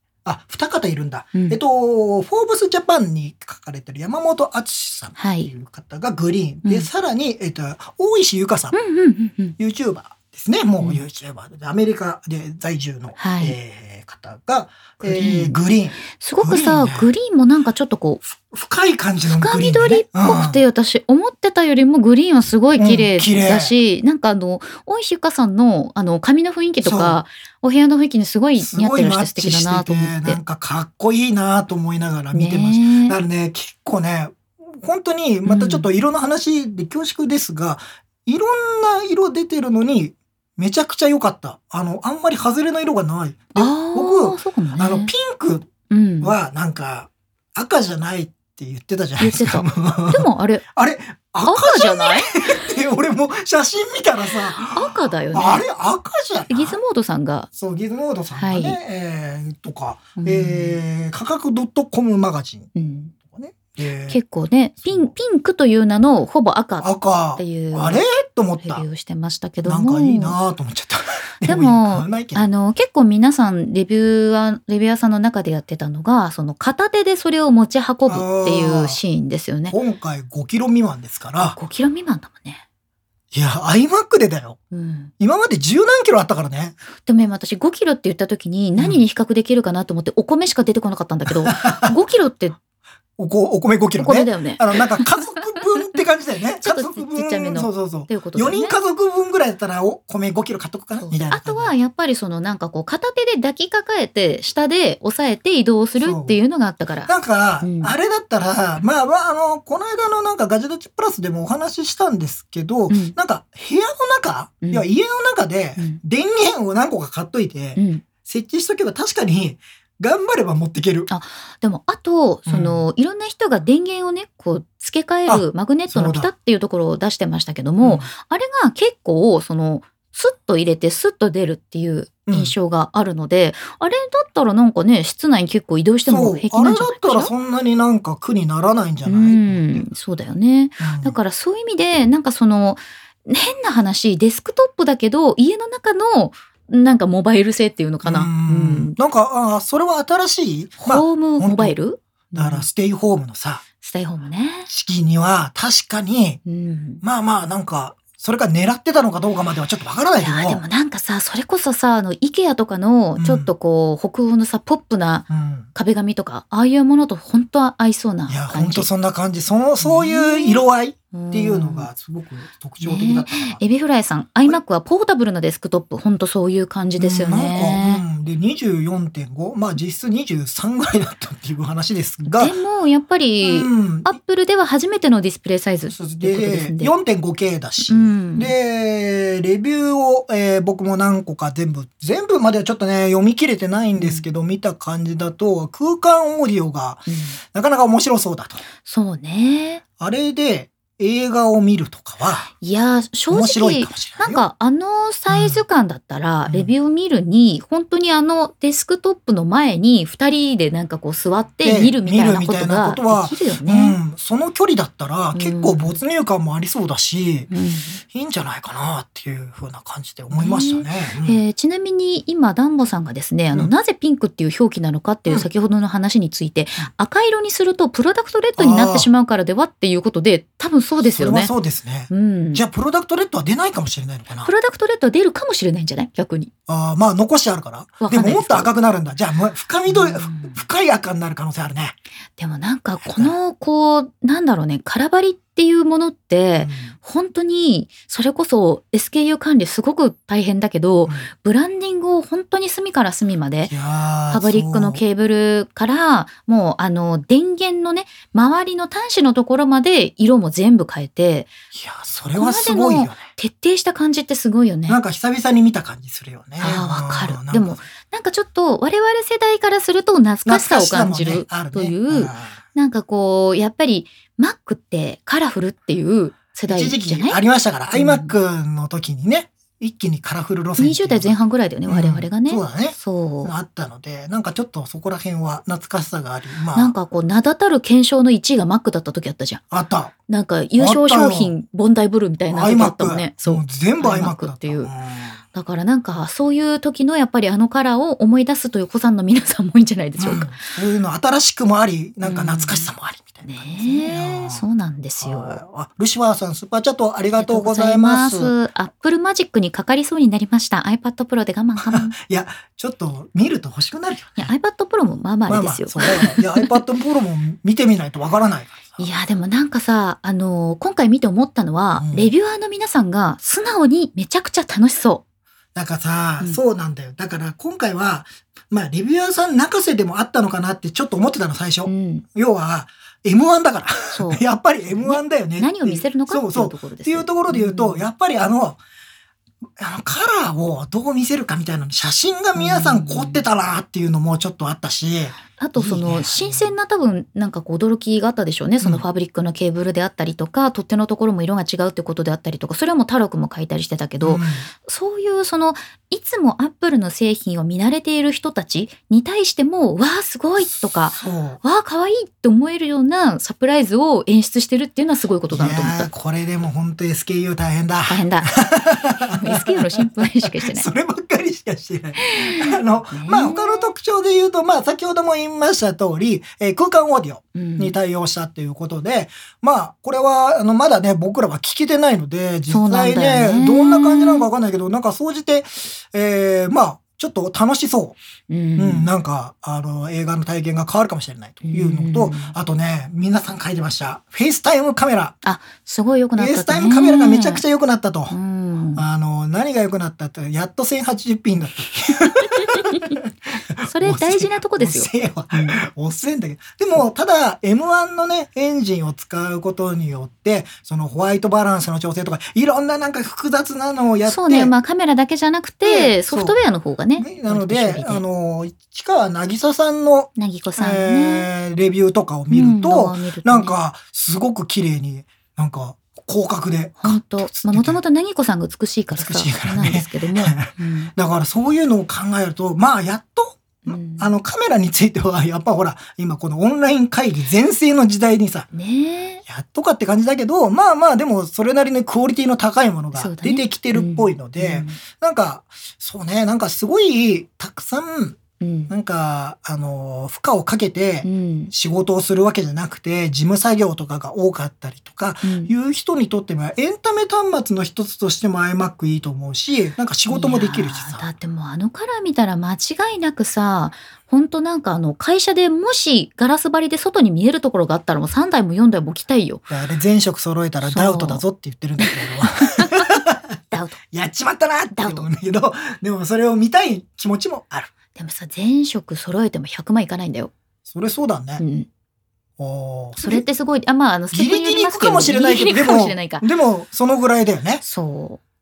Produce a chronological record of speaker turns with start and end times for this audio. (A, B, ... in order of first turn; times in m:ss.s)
0:00.2-0:08.8 A
0:01.3-0:01.6 B
0:05.2-0:05.5 B
0:08.7-0:09.6 B
0:09.6-0:17.1 A
0:13.2-0:13.6 B
0:15.0-0:15.6 B
0:16.1-0:18.2 B
0:18.2-0:20.6 A
0:19.2-0:30.4 B
0:22.8-0:23.7 A
0:26.8-0:27.2 A
0:28.6-0:45.7 A
0:32.3-0:33.2 B
0:35.4-0:35.9 B
0:43.6-0:45.1 B
0:45.9-0:46.3 B
0:46.2-0:56.8 A
0:49.2-0:50.6 B
0:51.4-0:52.4 B
0:54.6-0:55.6 B
0:56.5-0:57.5 B
0:57.5-1:02.7 A
0:58.4-0:58.8 B
1:00.2-1:00.8 B
1:02.8-1:03.1 B
1:03.3-1:04.2 A
1:04.1-1:08.0 B
1:04.8-1:05.1 A
1:06.8-1:08.8 A
1:08.6-1:10.4 B
1:09.6-1:12.5 A
1:11.4-1:19.8 B
1:18.0-1:19.0 A
1:19.7-1:21.6 A
1:21.4-1:22.6 B
1:23.3-1:24.6 A
1:24.7-1:25.1 B
1:25.2-1:26.8 A
1:27.0-1:32.6 B
1:28.8-1:29.0 A
1:31.4-1:31.9 A
1:33.2-1:41.7 A
1:34.0-1:35.6 B
1:36.6-1:38.8 B
1:40.9-1:47.9 B
1:46.0-1:46.4 A
1:47.0-2:01.1 A
1:52.9-1:53.2 B
1:54.6-1:54.9 B
1:57.8-1:58.0 B
2:01.1-2:17.3 B
2:02.5-2:02.8 A
2:05.2-2:06.3 A
2:07.8-2:08.1 A
2:12.3-2:12.5 A
2:16.0-2:19.9 A
2:19.0-2:29.0 B
2:20.8-2:21.2 A
2:28.0-2:31.8 A
2:30.8-2:32.7 B
2:32.3-2:33.6 A
2:33.8-2:34.7 B
2:34.7-2:36.4 A
2:36.4-2:37.0 B
2:37.0-2:40.6 A
2:40.2-2:48.9 B
2:43.2-2:43.5 A
2:45.3-2:45.7 A
2:48.3-2:53.6 A
2:49.8-2:51.9 B
2:52.8-2:58.0 B
2:57.0-3:02.5 A
3:02.2-3:06.9 B
3:03.4-3:04.1 A
3:05.9-3:18.6 A
3:07.9-3:08.5 B
3:14.0-3:14.2 B
3:17.1-3:17.4 B
3:18.8-3:19.8 B
3:20.0-3:22.5 A
3:22.5-3:34.0 B
3:23.3-3:24.4 A
3:25.3-3:25.6 A
3:26.5-3:26.7 A
3:31.6-3:37.5 A
3:35.3-3:36.0 B
3:37.5-3:38.0 B
3:38.1-3:41.4 A
3:40.3-3:51.5 B
3:48.6-3:49.1 A
3:51.0-3:54.5 A
3:52.1-3:52.6 B
3:54.4-3:56.5 B
3:56.7-4:02.0 A
3:58.0-3:58.7 B
3:59.9-4:00.6 B
4:02.4-4:13.7 B
4:02.9-4:03.4 A
4:06.6-4:06.9 A
4:13.6-4:15.0 A
4:14.3-4:21.5 B
4:21.7-4:23.2 A
4:22.3-4:25.0 B
4:24.9-4:27.8 A
4:26.6-4:37.4 B
4:30.4-4:32.6 A
4:36.7-4:41.4 A
4:37.9-4:38.3 B
4:40.8-4:43.5 B
4:41.9-4:46.9 A
4:46.7-4:49.6 B
4:49.7-4:50.1 A
4:50.3-4:54.9 B
4:50.8-4:51.5 A
4:52.5-4:55.4 A
4:55.5-5:00.6 B
5:00.2-5:04.6 A
5:02.2-5:02.9 B
5:03.4-5:05.6 B
5:05.2-5:08.5 A
5:07.3-5:12.1 B
5:11.8-5:14.5 A
5:14.4-5:16.8 B
5:15.5-5:19.0 A
5:19.0-5:25.2 B
5:22.0-5:22.3 A
5:25.8-5:38.8 A
5:31.8-5:32.2 B
5:34.1-5:38.1 B
5:39.8-5:46.7 A
5:42.6-5:43.4 B
5:45.6-6:06.1 B
5:54.2-5:54.7 A
6:01.1-6:01.6 A
6:05.5-6:28.2 A
6:08.1-6:08.5 B
6:09.3-6:10.9 B
6:12.2-6:13.9 B
6:17.5-6:18.0 B
6:22.7-6:24.5 B
6:28.5-6:29.1 B
6:28.8-6:35.4 A
6:31.6-6:32.5 B
6:35.4-6:37.6 B
6:36.4-6:38.3 A
6:38.3-6:39.0 B
6:39.0-6:54.7 A
6:42.5-6:43.1 B
6:43.8-6:45.8 B
6:54.2-6:58.2 B
6:55.8-6:56.6 A
6:57.2-7:08.0 A
7:00.4-7:01.5 B
7:02.5-7:03.8 B
7:07.0-7:11.1 B
7:09.1-7:18.7 A
7:13.8-7:14.3 B
7:18.7-7:19.4 B
7:19.5-7:41.3 A
7:23.1-7:25.0 B
7:28.6-7:28.9 B
7:31.2-7:31.7 B
7:35.4-7:35.7 B
7:40.3-7:49.6 B
7:49.7-7:57.9 A
7:50.8-7:51.4 B
7:52.0-7:54.0 B
7:54.9-7:55.2 B
7:58.2-8:00.5 B
8:00.8-8:01.6 A
8:01.6-8:01.9 B
8:02.6-8:03.4 A
8:03.2-8:06.4 B
8:04.3-8:07.8 A
8:07.8-8:08.4 B